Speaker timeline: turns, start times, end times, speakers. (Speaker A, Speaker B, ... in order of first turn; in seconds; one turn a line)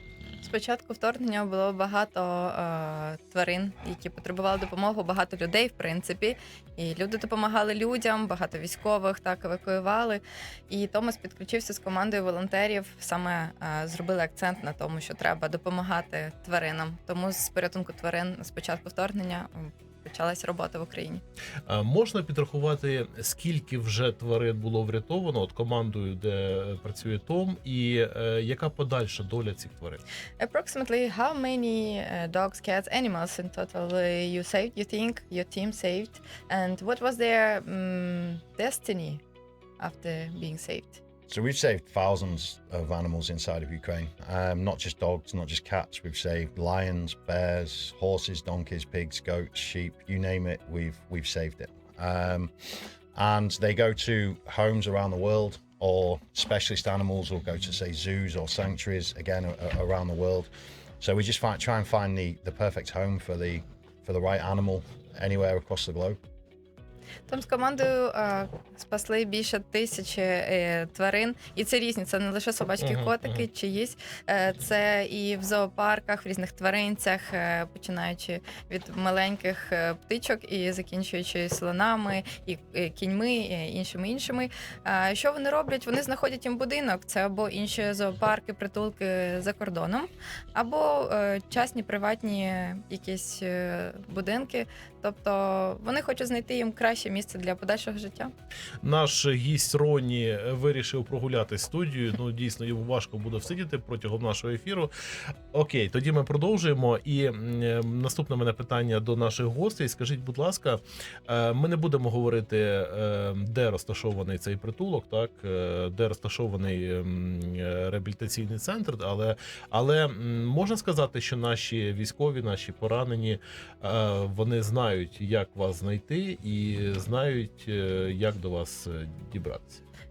Speaker A: 0.4-21.2
Speaker B: 21.7-30.0
Speaker A: 30.4-39.2
Speaker A: 39.8-41.0
Speaker C: 41.3-66.2
Speaker A: 67.3-98.3
Speaker B: 72.8-73.4
Speaker B: 98.8-104.9
Speaker B: 105.5-129.8